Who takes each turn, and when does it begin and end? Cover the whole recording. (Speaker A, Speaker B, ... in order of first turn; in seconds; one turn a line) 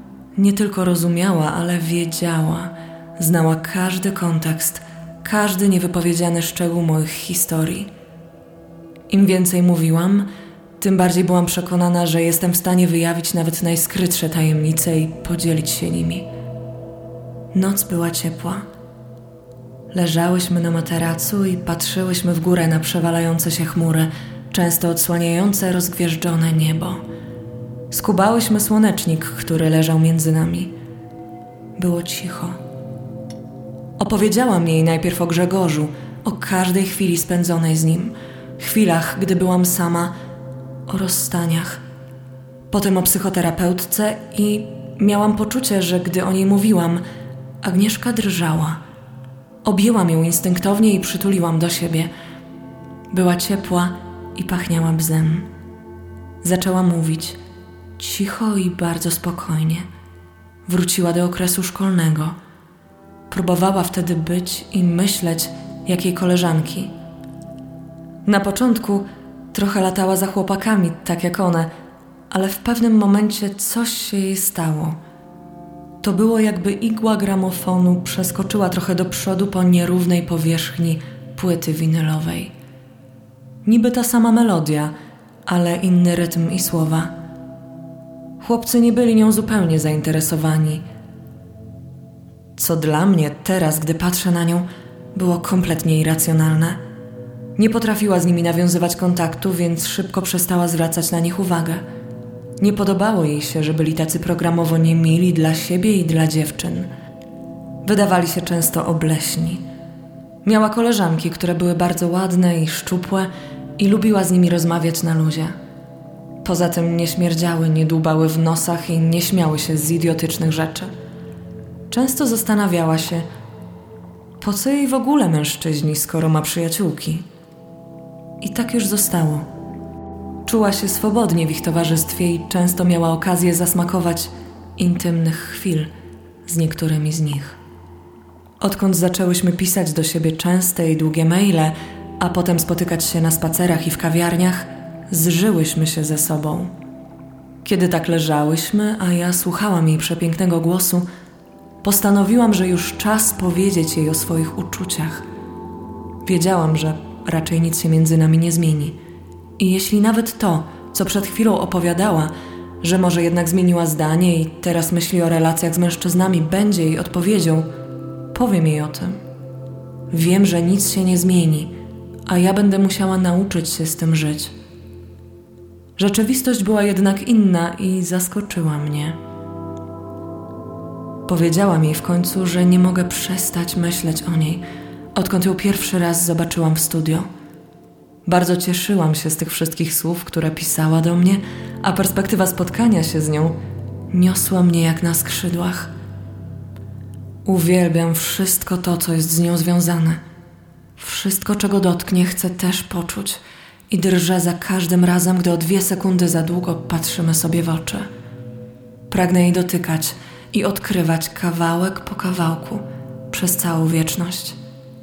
Speaker A: 0.3-7.9
Speaker A: 9.1-10.3
Speaker A: 10.8-16.3
Speaker A: 17.5-18.6
Speaker A: 19.9-27.0
Speaker A: 27.9-30.7
Speaker A: 31.8-32.6
Speaker A: 34.0-40.1
Speaker A: 40.9-41.8
Speaker A: 42.7-47.0
Speaker A: 47.6-48.8
Speaker A: 49.6-52.1
Speaker A: 53.1-55.5
Speaker A: 56.4-57.4
Speaker A: 58.0-59.9
Speaker A: 60.6-62.4
Speaker A: 63.3-66.9
Speaker A: 68.2-71.7
Speaker A: 72.3-75.0
Speaker A: 76.0-82.5
Speaker A: 83.6-84.9
Speaker A: 85.5-87.1
Speaker A: 88.4-90.8
Speaker A: 92.5-96.8
Speaker A: 97.6-101.8
Speaker A: 102.6-106.9
Speaker A: 107.8-109.6
Speaker A: 110.4-115.5
Speaker A: 116.4-120.9
Speaker A: 121.9-123.2
Speaker A: 124.4-127.2
Speaker A: 128.4-129.5
Speaker A: 130.4-135.9
Speaker A: 136.4-137.6
Speaker A: 138.6-146.7
Speaker A: 147.6-151.1
Speaker A: 151.8-155.2
Speaker A: 156.2-159.0
Speaker A: 159.6-167.7
Speaker A: 168.3-169.2
Speaker A: 170.1-171.7
Speaker A: 172.3-174.5
Speaker A: 176.0-179.2
Speaker A: 181.3-187.3
Speaker A: 188.2-193.6
Speaker A: 194.1-195.9
Speaker A: 197.4-200.2
Speaker A: 201.0-208.1
Speaker A: 209.1-214.6